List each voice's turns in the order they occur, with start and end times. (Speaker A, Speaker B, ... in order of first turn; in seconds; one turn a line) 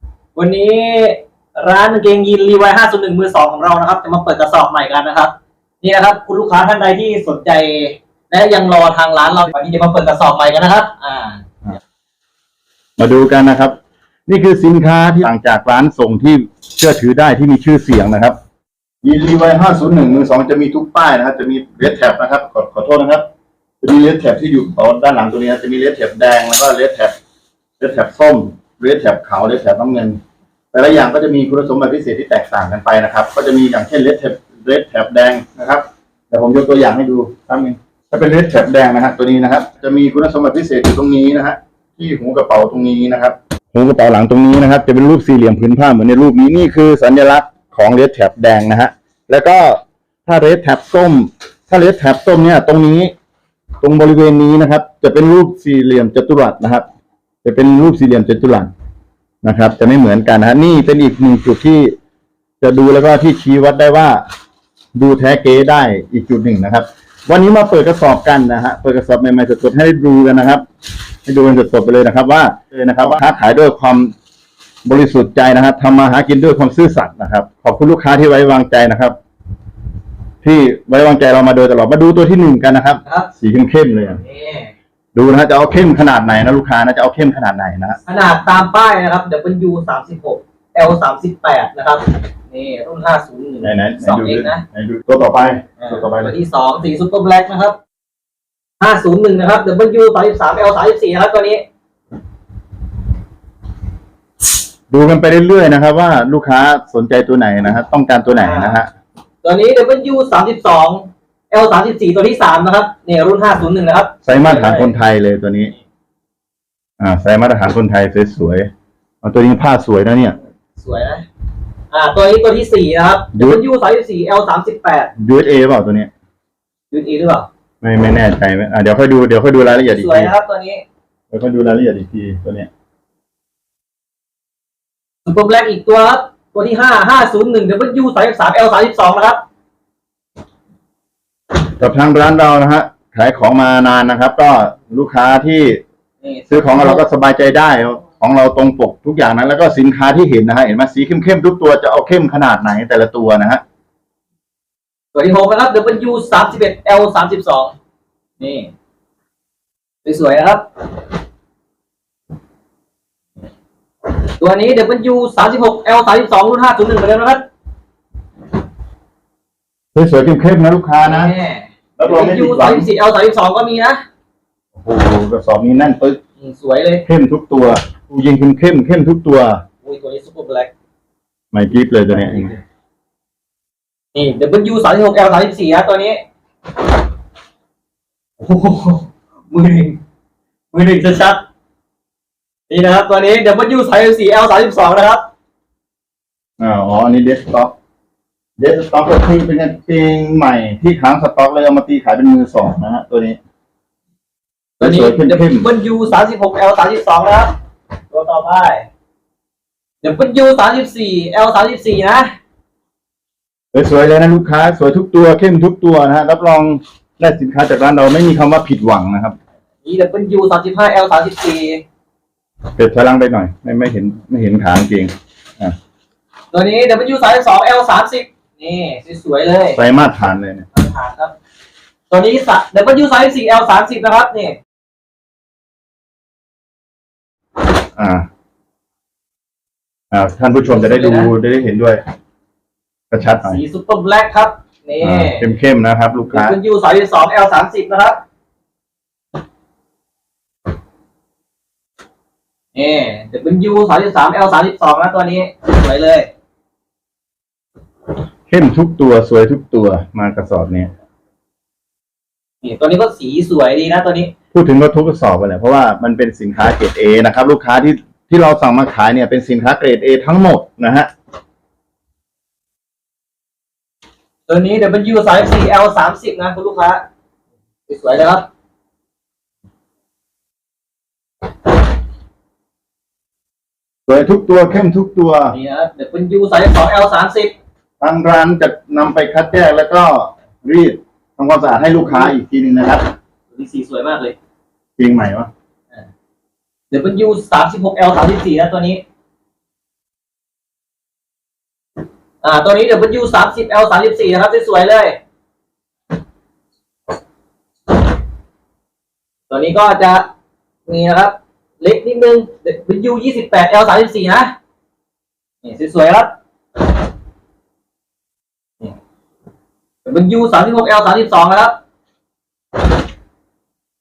Speaker A: 0.3-11.4
Speaker B: 13.0-13.8
Speaker B: 14.3-18.4
Speaker B: 19.0-23.2
Speaker B: 23.8-27.1
Speaker B: 27.8-30.2
Speaker B: 30.7-53.1
Speaker B: 53.8-56.9
Speaker B: 57.4-58.7
Speaker B: 59.4-62.0
Speaker B: 62.6-64.2
Speaker B: 65.0-70.7
Speaker B: 71.3-74.1
Speaker B: 74.8-79.2
Speaker B: 80.4-84.2
Speaker A: 84.2-84.7
Speaker B: 85.2-88.0
Speaker A: 88.1-94.6
Speaker B: 93.6-96.3
Speaker A: 95.8-97.8
Speaker A: 98.8-101.6
Speaker B: 104.9-108.9
Speaker A: 108.3-108.8
Speaker A: 109.4-114.9
Speaker B: 114.2-115.7
Speaker B: 117.0-118.7
Speaker B: 119.2-120.4
Speaker A: 120.8-121.3
Speaker A: 121.9-125.1
Speaker B: 123.3-123.6
Speaker B: 125.2-126.1
Speaker A: 126.9-127.5
Speaker B: 127.8-130.3
Speaker A: 129.7-130.8
Speaker B: 131.3-132.7
Speaker A: 135.2-139.4
Speaker B: 141.8-145.8
Speaker A: 146.2-147.1
Speaker B: 146.5-153.6
Speaker A: 155.1-157.7
Speaker A: 158.4-158.7
Speaker A: 160.1-160.7
Speaker A: 164.2-167.5
Speaker B: 169.9-171.3
Speaker A: 171.0-174.0
Speaker B: 172.0-172.9
Speaker B: 174.8-176.2
Speaker A: 176.4-177.1
Speaker B: 177.1-179.6
Speaker A: 179.8-180.7
Speaker B: 181.5-182.5
Speaker A: 182.2-182.6
Speaker A: 184.2-186.2
Speaker A: 188.4-190.0
Speaker A: 190.7-191.4
Speaker A: 192.7-195.3
Speaker B: 196.6-197.7
Speaker B: 198.6-203.4
Speaker B: 204.8-205.7
Speaker A: 204.8-207.6
Speaker A: 208.1-208.9
Speaker A: 210.0-212.3
Speaker B: 213.7-219.4
Speaker A: 219.8-221.8
Speaker B: 222.8-225.8
Speaker A: 226.5-229.8
Speaker B: 229.8-230.7
Speaker A: 230.7-231.3
Speaker A: 232.1-234.6
Speaker B: 238.0-238.2
Speaker B: 240.1-242.0
Speaker A: 240.6-241.3
Speaker B: 243.1-243.6
Speaker A: 243.4-245.5
Speaker B: 245.0-246.6
Speaker A: 246.3-248.2
Speaker A: 252.8-256.3
Speaker B: 258.5-260.9
Speaker A: 262.6-264.3
Speaker B: 264.5-271.1
Speaker A: 274.5-277.0
Speaker A: 277.9-278.5
Speaker B: 284.1-285.5
Speaker A: 285.5-287.5
Speaker B: 288.0-293.1
Speaker A: 293.5-294.3
Speaker B: 295.0-295.5
Speaker A: 296.9-299.0
Speaker A: 302.4-305.2
Speaker A: 309.5-310.3
Speaker A: 310.9-314.5
Speaker A: 315.6-316.3
Speaker A: 320.0-321.8